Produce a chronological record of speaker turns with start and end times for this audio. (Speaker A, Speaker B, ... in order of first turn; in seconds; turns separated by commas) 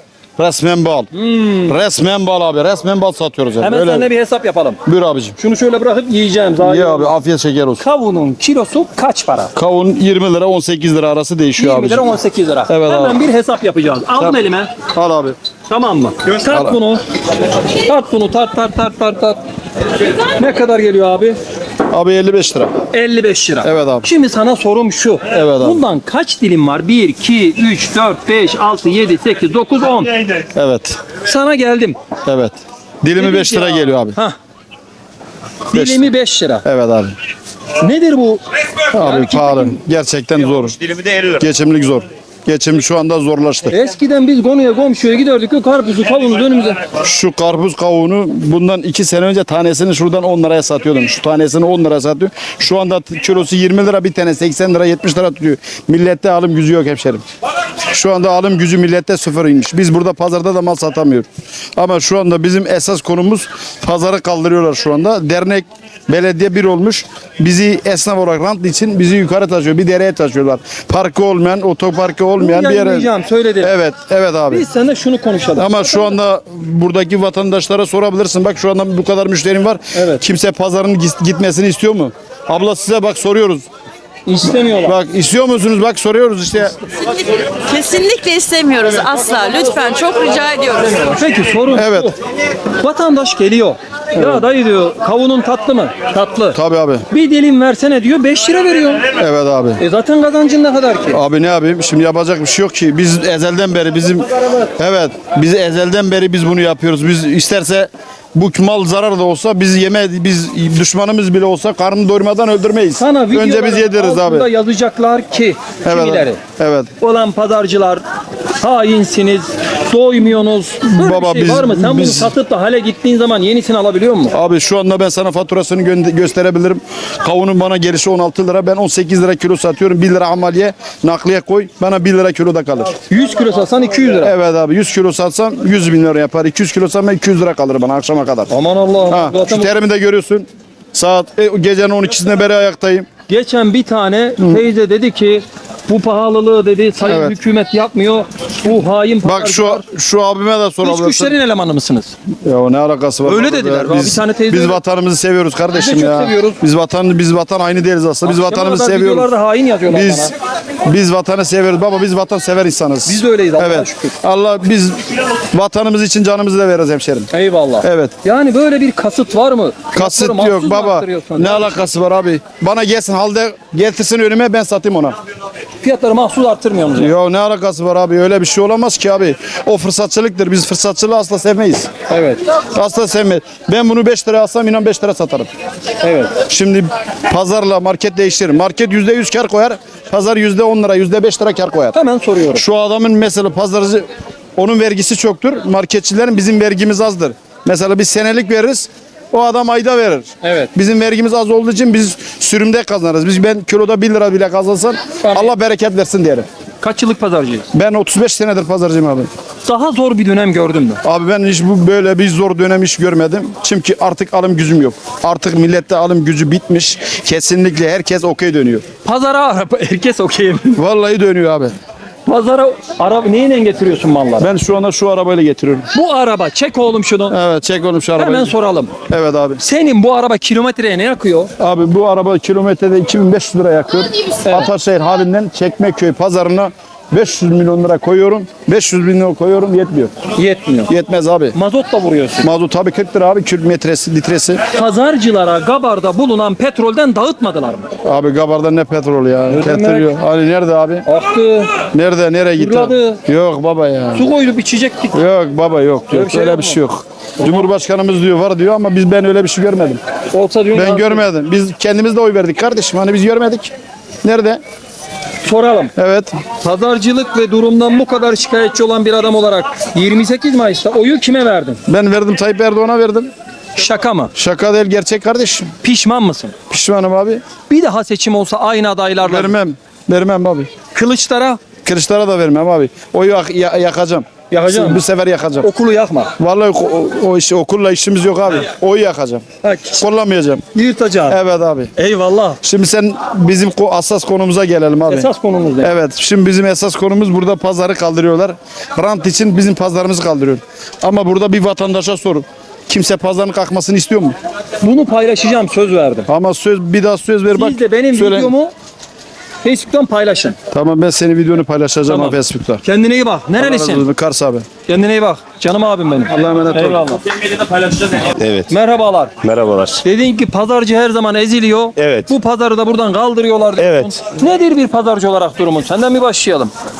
Speaker A: 0.4-1.1, Speaker B: 1.1-1.8, Speaker A: 1.6-4.1, Speaker B: 3.6-4.8, Speaker A: 4.8-5.3, Speaker B: 5.4-7.1, Speaker A: 6.6-7.8, Speaker B: 7.8-9.5, Speaker A: 9.5-12.2, Speaker B: 11.6-14.7, Speaker A: 12.7-13.2, Speaker A: 14.9-15.3, Speaker B: 15.7-17.0, Speaker A: 16.4-16.8, Speaker B: 17.7-19.4, Speaker B: 20.2-21.4, Speaker A: 21.9-22.8, Speaker B: 22.9-30.3, Speaker A: 23.6-24.1, Speaker A: 25.3-25.8, Speaker A: 30.5-31.0, Speaker B: 31.2-32.0, Speaker A: 32.2-34.2, Speaker B: 33.2-34.4, Speaker B: 35.7-36.6, Speaker A: 35.7-36.0, Speaker A: 36.6-37.1, Speaker B: 37.8-38.4, Speaker A: 38.9-40.8, Speaker B: 39.0-39.8, Speaker C: 40.8-41.3, Speaker A: 41.4-43.8, Speaker B: 43.7-46.8, Speaker A: 47.0-57.2, Speaker A: 57.9-73.1, Speaker B: 72.4-73.8, Speaker A: 73.6-74.7, Speaker B: 74.5-76.2, Speaker A: 75.5-83.7, Speaker B: 79.9-80.2, Speaker B: 84.2-85.0, Speaker A: 84.7-86.8, Speaker D: 87.2-90.9, Speaker B: 90.8-92.2, Speaker A: 91.7-92.1, Speaker B: 92.8-96.6, Speaker A: 94.2-94.4, Speaker A: 96.5-97.0, Speaker B: 97.1-99.1, Speaker A: 99.1-99.8, Speaker B: 99.8-101.2, Speaker A: 101.1-114.5, Speaker B: 113.0-116.4, Speaker A: 115.8-116.9, Speaker B: 117.0-118.0, Speaker B: 118.6-124.3, Speaker A: 120.9-122.3, Speaker A: 124.3-132.9, Speaker B: 133.1-134.3, Speaker A: 134.2-138.5, Speaker B: 138.5-139.8, Speaker A: 139.1-143.1, Speaker B: 143.3-149.8, Speaker A: 144.4-144.6, Speaker A: 147.1-147.3, Speaker A: 149.2-151.3, Speaker B: 150.8-152.1, Speaker A: 152.4-159.3, Speaker B: 153.2-154.8, Speaker B: 155.7-156.6, Speaker B: 158.2-160.3, Speaker A: 159.9-160.3, Speaker A: 160.8-167.3, Speaker B: 163.1-164.1, Speaker B: 167.3-171.8, Speaker A: 167.8-168.1, Speaker A: 169.9-175.2, Speaker B: 175.8-177.1, Speaker A: 176.9-181.9, Speaker B: 182.1-182.4, Speaker A: 182.7-185.5, Speaker B: 186.0-186.3, Speaker A: 186.4-191.9, Speaker B: 191.9-192.6, Speaker A: 192.5-194.0, Speaker A: 194.6-206.4, Speaker B: 200.4-200.7, Speaker B: 205.2-205.5, Speaker B: 206.8-207.7, Speaker A: 207.7-209.3, Speaker B: 209.6-211.0, Speaker A: 211.0-218.8, Speaker B: 219.0-220.8, Speaker A: 220.8-221.7, Speaker B: 222.2-224.5, Speaker A: 224.4-225.9, Speaker B: 225.9-227.3, Speaker A: 227.3-228.5, Speaker B: 228.2-228.9, Speaker A: 229.1-229.6, Speaker B: 229.6-231.5, Speaker A: 231.6-240.1, Speaker B: 240.3-240.9, Speaker A: 240.9-241.6, Speaker B: 241.5-242.5, Speaker A: 242.4-244.6, Speaker B: 244.7-247.9, Speaker A: 248.0-251.1, Speaker B: 249.5-250.1, Speaker B: 251.1-251.8, Speaker A: 251.9-254.3, Speaker B: 252.6-253.2, Speaker B: 254.1-255.2, Speaker A: 255.1-260.0, Speaker B: 256.1-256.8, Speaker B: 260.3-261.2, Speaker A: 260.7-263.7, Speaker A: 264.2-264.6, Speaker B: 265.4-265.9, Speaker A: 265.9-266.4, Speaker B: 266.6-271.8, Speaker A: 271.9-273.3, Speaker B: 273.8-274.3, Speaker A: 274.4-275.7, Speaker B: 275.8-276.5, Speaker A: 276.7-277.4, Speaker B: 277.7-279.5, Speaker A: 279.2-280.7, Speaker B: 280.9-281.6, Speaker A: 281.8-285.7, Speaker B: 284.5-285.0, Speaker B: 285.6-286.3, Speaker A: 286.4-289.4, Speaker B: 289.6-290.0, Speaker A: 290.0-290.6, Speaker B: 290.7-291.4, Speaker A: 291.3-291.9, Speaker B: 291.9-292.6, Speaker A: 292.6-295.3, Speaker B: 295.1-295.9, Speaker A: 295.8-304.3, Speaker B: 304.8-306.3, Speaker A: 306.3-308.5, Speaker B: 307.5-308.7, Speaker B: 309.6-310.6, Speaker A: 310.7-312.8, Speaker B: 312.1-314.0, Speaker A: 313.6-314.6, Speaker B: 314.9-317.2, Speaker A: 316.3-317.1, Speaker C: 317.6-318.7, Speaker B: 318.7-319.3, Speaker C: 319.4-320.0, Speaker B: 320.0-326.7, Speaker C: 322.0-322.3, Speaker C: 323.8-324.2